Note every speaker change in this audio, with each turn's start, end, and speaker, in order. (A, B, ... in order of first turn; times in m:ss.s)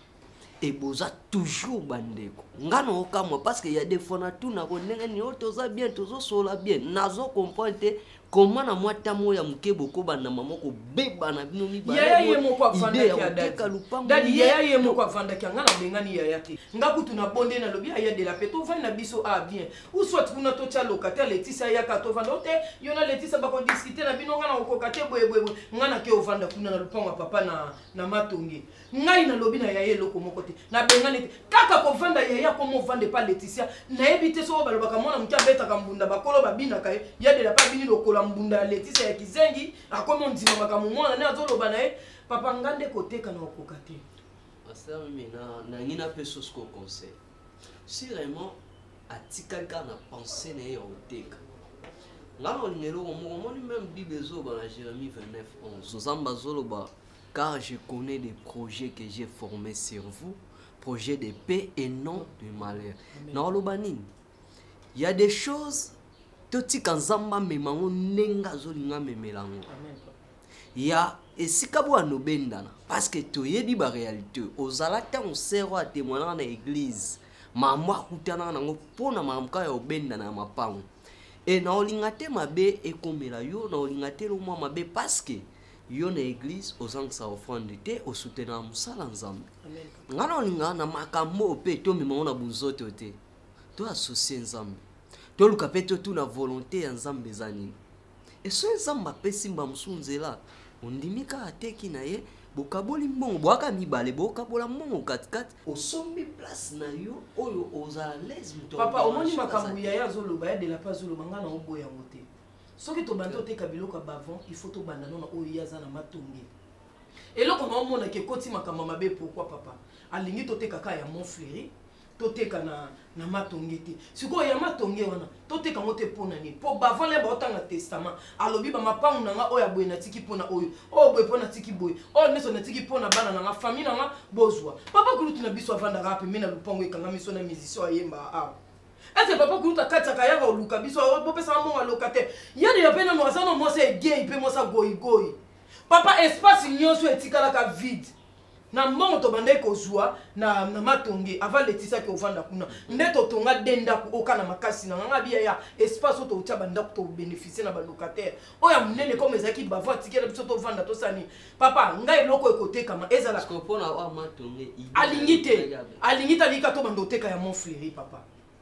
0:00.6-0:15.0 A
0:11.8-0:44.0 B
0:44.6-0:47.2 A
0:47.9-0:48.6 A
0:49.1-0:51.4 A
0:52.4-1:04.1 A
1:02.2-1:03.4 B
1:04.9-1:05.9 A
1:06.5-1:09.7 A
1:09.7-1:10.1 B
1:10.7-1:20.8 A
1:21.5-1:29.5 A
1:29.6-1:30.0 B
1:30.1-1:33.2 A
1:33.8-1:34.8 A
1:35.4-1:37.8 A
1:38.4-1:50.0 A
1:48.7-1:52.2 B
1:52.8-1:56.5 B
1:57.4-2:18.6 B
2:19.2-2:25.3 B
2:25.9-2:28.1 B
2:28.7-2:43.4 B
2:32.7-2:33.1 A
2:43.4-2:46.0 A
2:44.9-2:48.2 B